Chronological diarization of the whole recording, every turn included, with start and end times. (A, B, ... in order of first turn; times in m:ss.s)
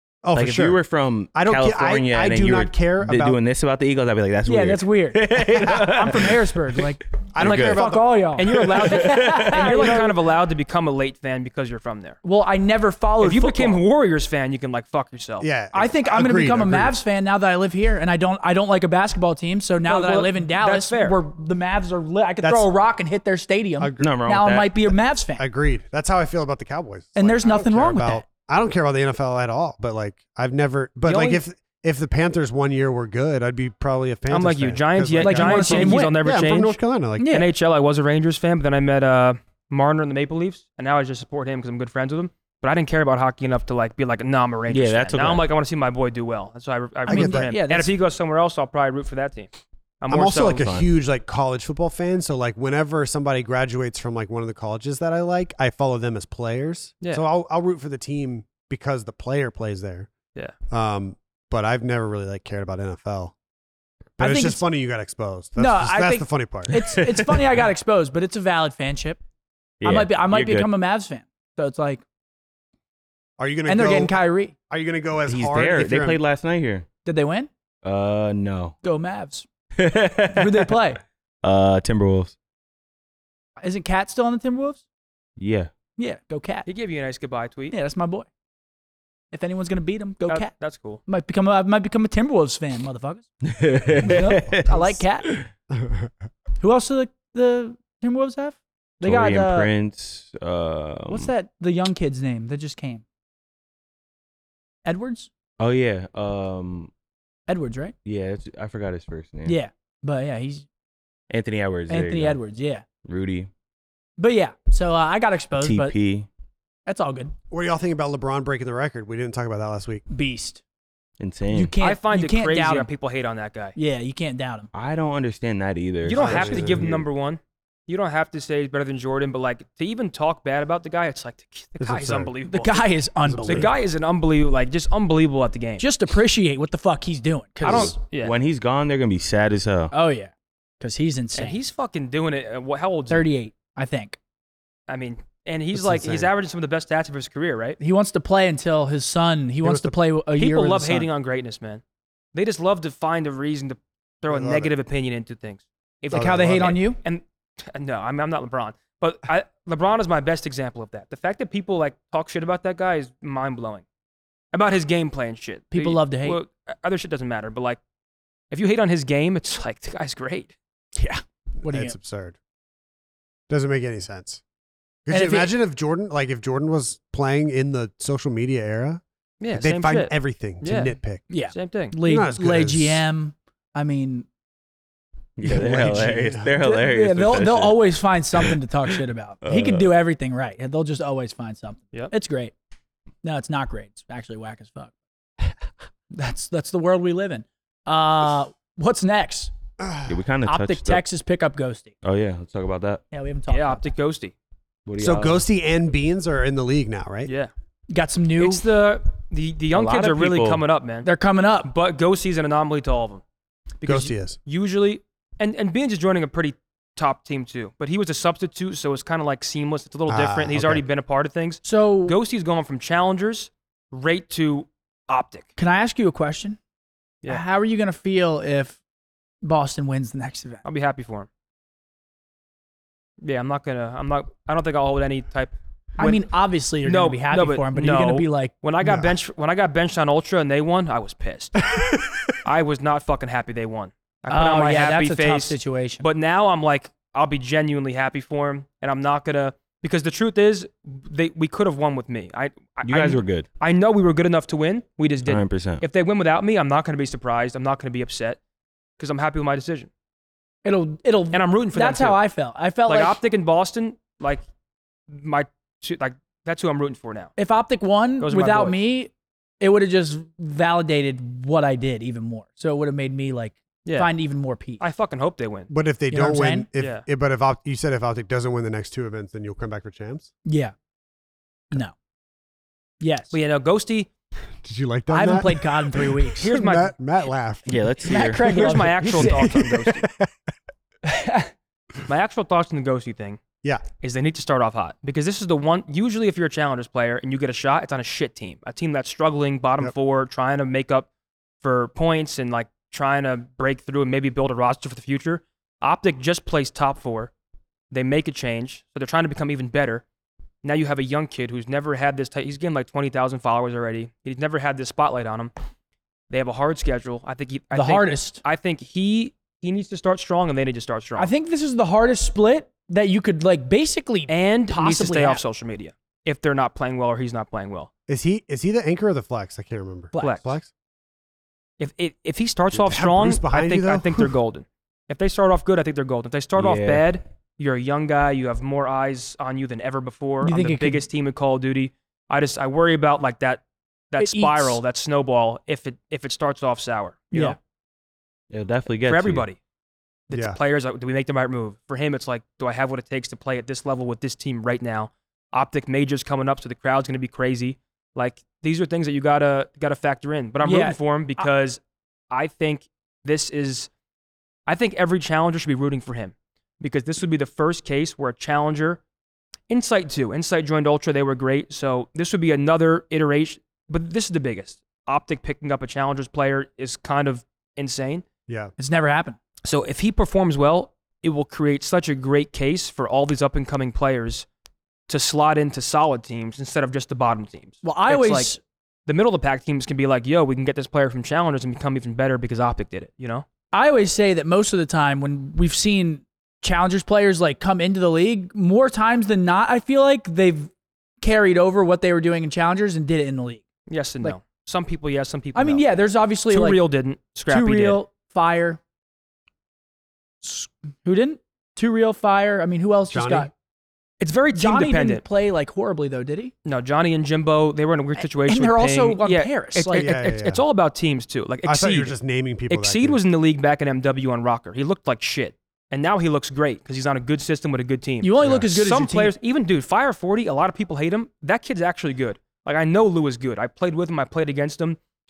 0:00.2-0:00.8 A
0:00.4-0:07.9 B
0:01.3-0:03.4 A
0:04.5-0:10.2 C
0:07.3-0:08.2 A
0:08.4-0:12.2 D
0:08.5-0:10.0 B
0:12.2-0:13.8 C
0:13.2-0:15.5 D
0:15.4-0:17.0 A
0:15.7-0:25.4 C
0:19.9-0:21.2 D
0:22.4-0:22.7 A
0:23.8-0:24.2 A
0:24.0-0:24.8 B
0:25.4-0:37.3 A
0:27.2-0:28.2 C
0:31.1-0:31.4 D
0:34.3-0:49.5 D
0:35.2-0:36.2 C
0:37.2-0:37.5 C
0:44.7-0:45.5 B
0:47.1-0:47.5 A
0:47.1-0:47.9 C
0:50.0-0:50.7 D
0:50.1-1:00.1 A
0:50.6-0:50.9 B
1:00.7-1:03.3 A
1:04.2-1:06.8 A
1:04.2-1:04.6 C
1:05.6-1:09.2 C
1:06.7-1:07.4 B
1:09.8-1:10.7 B
1:09.8-1:12.0 C
1:13.4-1:14.2 A
1:13.7-1:14.6 C
1:14.7-1:16.2 A
1:15.3-1:16.9 B
1:17.0-1:17.5 C
1:17.8-1:18.8 B
1:18.8-1:19.5 C
1:19.8-1:20.8 B
1:20.3-1:21.0 C
1:21.4-1:22.4 B
1:23.6-1:24.8 C
1:25.4-1:25.7 B
1:26.0-1:26.7 C
1:26.7-1:27.8 D
1:27.7-1:28.3 C
1:29.3-1:30.5 C
1:30.3-1:31.0 D
1:31.1-1:33.3 C
1:33.4-1:35.5 B
1:34.0-1:35.3 C
1:35.7-1:36.1 A
1:36.6-1:39.7 C
1:39.0-1:41.3 B
1:41.1-1:43.0 C
1:44.8-1:45.3 C
1:45.6-1:46.9 B
1:47.5-1:48.0 C
1:48.0-1:49.6 B
1:49.5-1:50.7 C
1:51.3-1:52.4 B
1:51.9-1:52.8 C
1:53.0-1:53.5 B
1:54.2-1:55.9 C
1:55.6-1:56.3 B
1:56.9-1:57.3 C
1:57.5-2:00.0 A
2:00.1-2:00.6 C
2:01.2-2:01.7 B
2:01.5-2:02.9 C
2:01.8-2:03.8 D
2:03.8-2:04.7 C
2:04.7-2:07.0 B
2:06.0-2:15.8 D
2:06.1-2:07.0 A
2:11.8-2:12.3 A
2:12.5-2:13.7 C
2:13.2-2:13.7 A
2:15.8-2:18.0 C
2:17.6-2:18.4 D
2:17.7-2:19.9 B
2:19.9-2:21.6 C
2:21.4-2:23.3 D
2:23.1-2:24.2 C
2:24.9-2:27.8 D
2:25.7-2:26.3 A
2:27.8-2:31.1 C
2:29.6-2:30.0 A
2:30.4-2:31.8 D
2:32.3-2:43.8 D
2:34.3-2:34.7 A
2:36.1-2:37.0 C
2:36.1-2:36.8 A
2:44.5-2:47.8 D
2:45.7-2:46.4 C
2:48.5-2:50.5 D
2:51.0-2:52.0 C
2:51.6-2:52.4 A
2:53.5-2:54.4 A
2:55.1-2:59.0 A
2:55.1-2:55.5 C
2:59.4-3:01.0 D
2:59.5-3:01.3 A
3:01.3-3:04.3 C
3:01.5-3:02.0 D
3:02.0-3:03.0 A
3:05.4-3:07.8 B
3:05.4-3:06.5 A
3:06.6-3:12.5 C
3:09.4-3:09.9 B
3:13.2-3:14.9 C
3:16.1-3:19.5 C
3:19.8-3:20.2 A
3:20.1-3:21.0 B
3:20.4-3:22.0 C
3:22.0-3:23.0 B
3:23.1-3:23.9 C
3:23.5-3:24.3 D
3:24.9-3:25.4 B
3:25.0-3:27.3 A
3:27.9-3:28.7 C
3:28.4-3:31.1 D
3:29.7-3:30.6 B
3:31.0-3:31.7 C
3:31.6-3:33.2 D
3:33.8-3:45.5 D
3:33.8-3:34.4 A
3:40.1-3:40.8 A
3:41.6-3:42.2 C
3:45.6-3:46.6 C
3:47.3-3:48.8 C
3:49.4-3:50.6 C
3:50.6-3:51.3 D
3:53.2-3:56.3 D
3:56.0-3:58.6 C
3:56.8-4:01.6 D
3:58.8-3:59.2 A
4:02.4-4:18.4 D
4:04.3-4:06.0 C
4:12.8-4:13.5 B
4:15.3-4:15.8 B
4:19.0-4:19.9 D
4:20.6-4:23.2 C
4:21.3-4:22.2 D
4:22.9-4:24.4 D
4:25.1-4:27.3 D
4:27.4-4:34.8 C
4:28.2-4:28.8 D
4:33.8-4:34.1 D
4:34.8-4:35.7 D
4:35.7-4:40.3 A
4:36.1-4:36.7 C
4:36.8-4:37.0 D
4:40.5-4:40.7 C
4:43.0-4:43.3 C
4:43.3-4:44.1 D
4:44.6-4:47.7 A
4:45.1-4:46.5 C
4:46.4-4:46.9 D
4:47.7-4:48.7 B
4:47.9-4:49.5 C
4:48.4-4:50.1 D
4:49.1-4:50.3 A
4:51.0-4:51.5 C
4:52.1-4:53.4 D
4:54.0-5:01.1 D
5:01.6-5:07.3 D
5:07.9-5:10.0 D
5:10.6-5:15.5 D
5:16.3-5:21.3 D
5:17.7-5:18.4 C
5:21.2-5:25.4 C
5:24.3-5:27.9 D
5:28.1-5:30.7 A
5:30.1-5:30.5 C
5:30.2-5:30.6 D
5:31.8-5:47.6 D
5:32.7-5:34.3 A
5:36.6-5:37.1 B
5:40.4-5:41.0 C
5:44.2-5:44.8 C
5:48.5-5:49.5 B
5:49.0-5:49.6 D
5:50.3-6:03.9 D
5:50.3-5:50.6 A
6:00.6-6:01.5 C
6:04.7-6:09.0 D
6:09.7-6:18.2 D
6:18.5-6:18.7 A
6:18.8-6:19.4 C
6:19.6-6:24.5 D
6:25.1-6:28.5 D
6:27.8-6:28.6 C
6:29.1-6:33.4 D
6:33.7-6:43.6 C
6:43.9-6:45.8 D
6:45.6-6:46.8 C
6:46.5-6:48.0 D
6:47.5-6:48.8 C
6:50.4-6:53.5 C
6:53.1-6:53.5 A
6:54.2-6:55.2 D
6:54.5-6:56.5 C
6:56.6-7:02.2 D
6:58.2-7:00.1 C
6:59.9-7:00.6 A
7:01.6-7:03.2 A
7:02.7-7:15.0 D
7:08.2-7:09.3 C